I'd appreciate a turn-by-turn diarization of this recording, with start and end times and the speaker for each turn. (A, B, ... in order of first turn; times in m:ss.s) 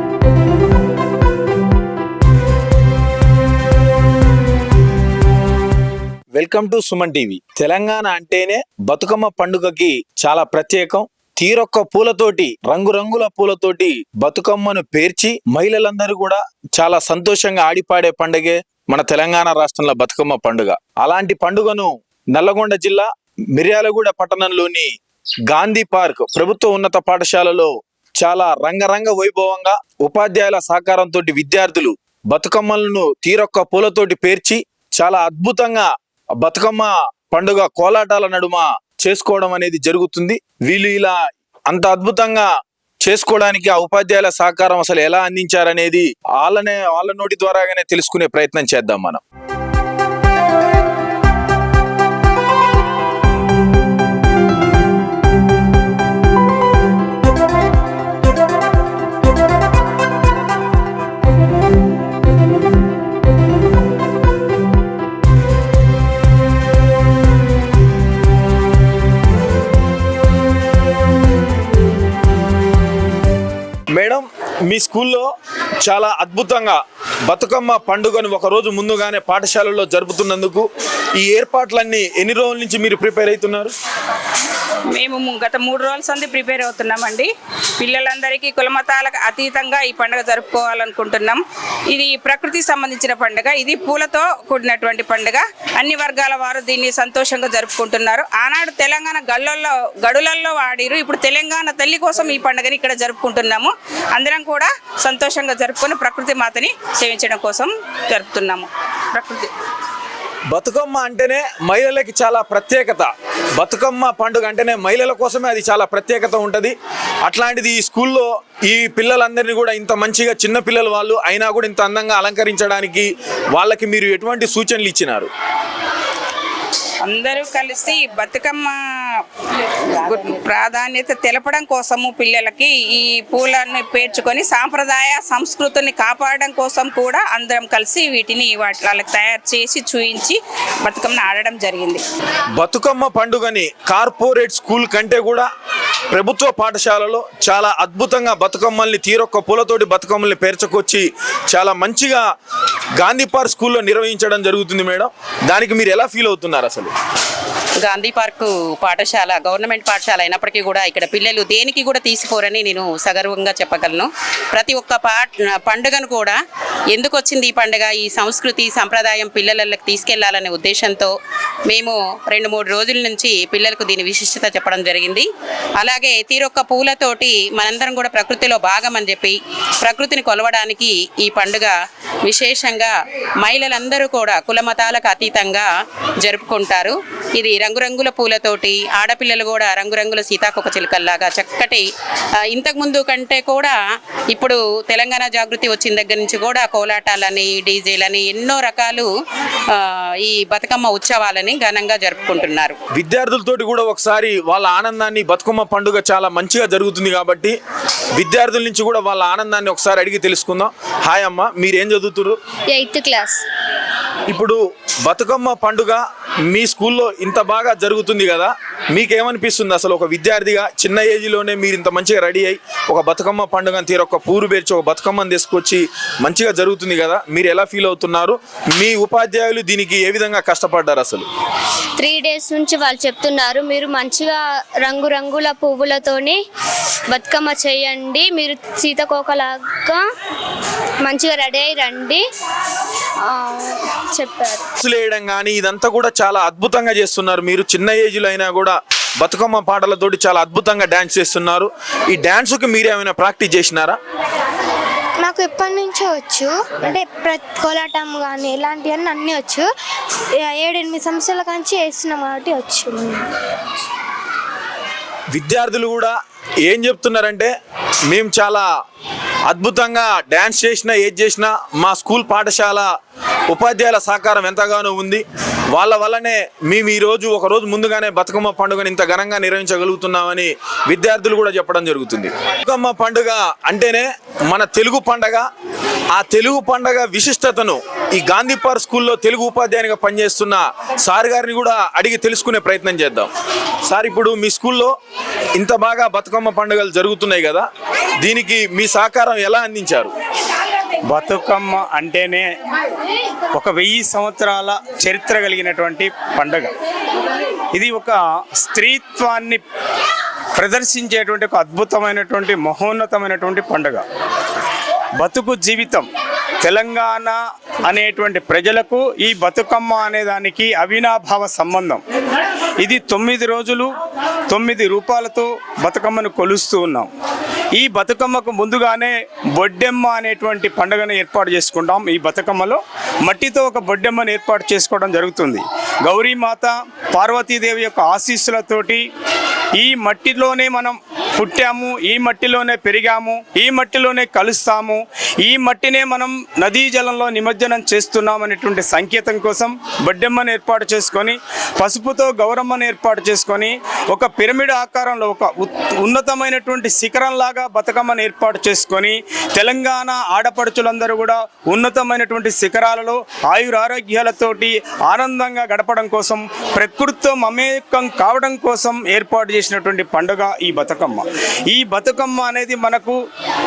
0:06.3-0:24.9 A
0:25.5-0:41.2 A
0:41.7-0:42.5 A
0:43.0-0:49.2 A
1:13.9-1:15.3 A
1:15.8-1:20.7 A
1:21.2-1:23.7 A
1:24.9-1:49.5 B
1:50.5-2:05.3 A
2:07.0-2:09.2 B
2:09.9-2:22.0 B
2:22.6-2:25.5 A
2:26.1-2:32.2 A
2:33.0-2:36.9 A
2:37.8-2:46.4 C
2:46.9-2:51.1 C
2:51.7-2:55.3 C
2:55.8-3:01.7 C
3:02.2-3:05.7 C
3:06.2-3:11.9 C
3:12.5-3:13.7 C
3:14.3-3:19.1 C
3:19.7-3:22.8 C
3:22.9-3:27.6 A
3:28.2-3:32.4 A
3:32.7-3:33.4 D
3:34.3-3:51.3 A
3:52.0-3:56.4 D
3:57.1-4:00.0 D
4:01.0-4:02.2 D
4:03.2-4:04.7 D
4:04.8-4:14.0 A
4:15.2-4:19.7 E
4:20.4-4:23.2 E
4:25.3-4:27.5 A
4:28.1-4:28.7 A
4:29.5-4:32.9 A
4:33.5-4:45.4 A
4:46.1-4:53.3 A
4:53.9-4:54.9 A
4:55.6-4:57.6 A
4:58.2-5:00.1 A
5:01.1-5:02.5 F
5:03.5-5:06.7 F
5:07.7-5:09.6 F
5:10.6-5:14.0 F
5:15.2-5:16.1 F
5:16.6-5:22.0 F
5:22.8-5:23.9 F
5:24.5-5:27.1 F
5:27.8-5:39.0 F
5:39.8-6:13.2 F